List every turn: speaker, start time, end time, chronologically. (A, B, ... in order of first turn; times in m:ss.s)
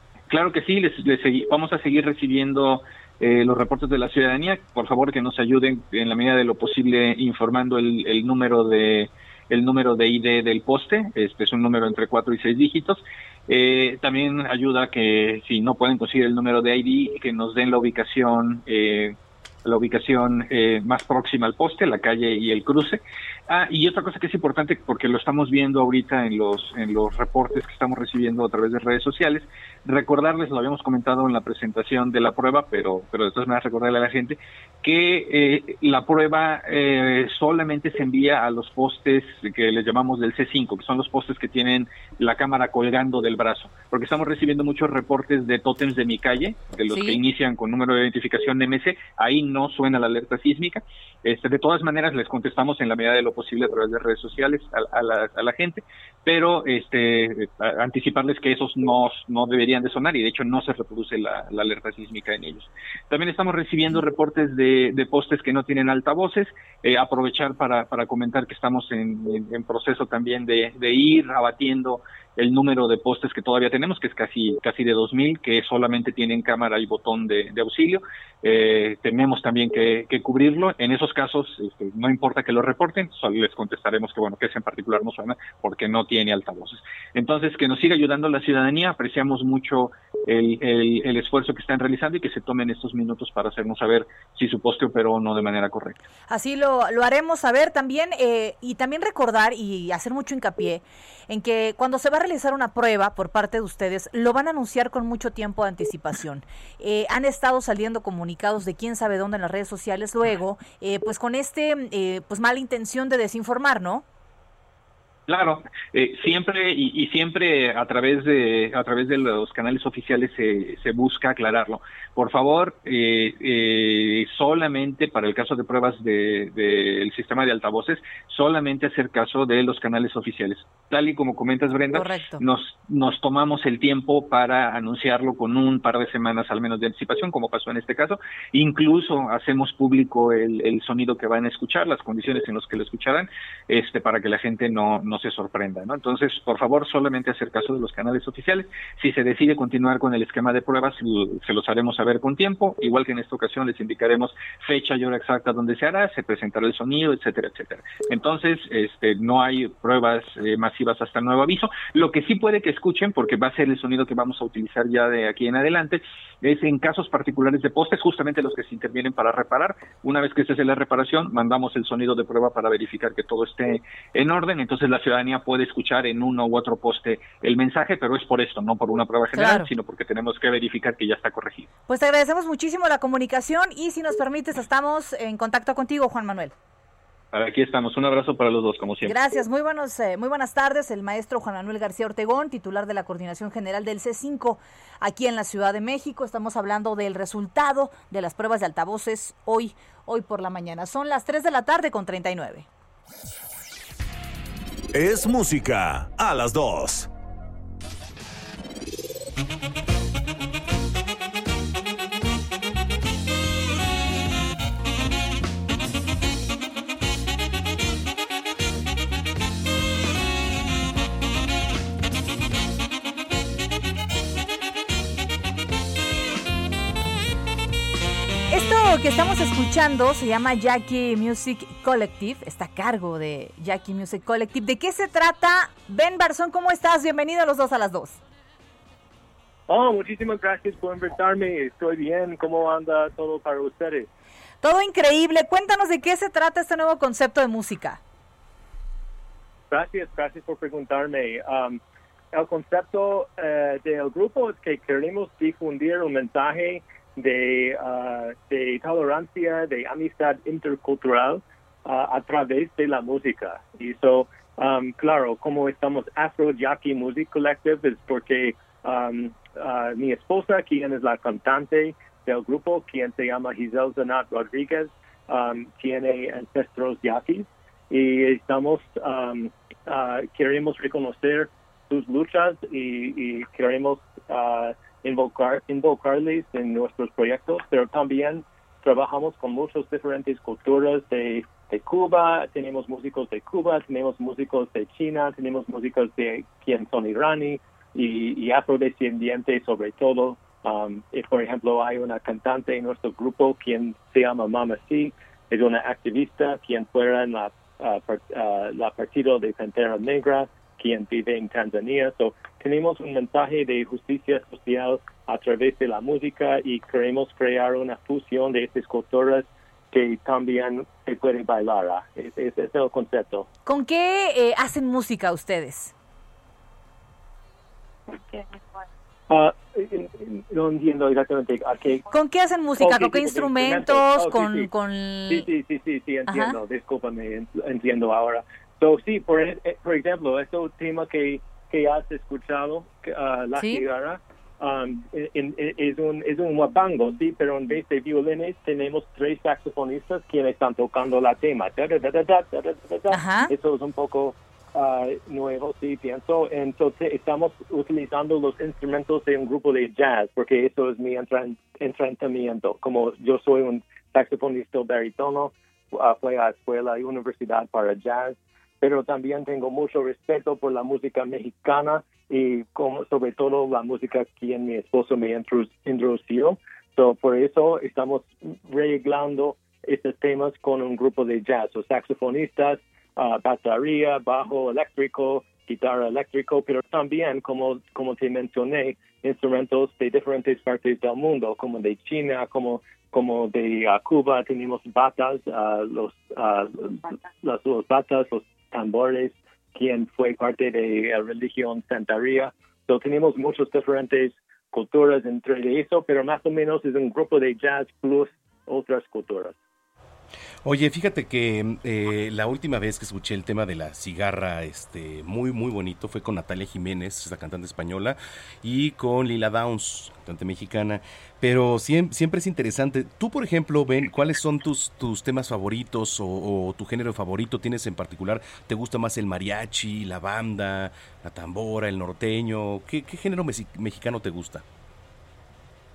0:00.3-1:36.0 A
0:46.9-0:47.2 B
1:36.3-1:54.0 B
1:55.3-3:01.7 A
2:11.9-2:12.4 B
2:59.3-2:59.7 B
3:01.9-3:06.5 B
3:07.3-3:09.2 A
3:09.0-3:22.7 B
3:24.9-3:27.1 C
3:48.5-3:58.2 B
3:59.7-4:04.1 D
4:04.6-4:08.0 B
4:09.7-4:11.8 D
4:12.3-5:23.5 D
5:23.7-5:25.9 B
5:29.3-5:32.0 D
5:32.1-5:35.5 B
5:32.8-5:34.7 D
5:35.3-6:49.6 D
5:36.3-5:36.6 B
5:43.5-5:43.8 B
5:53.1-5:53.5 B
6:50.6-7:14.6 E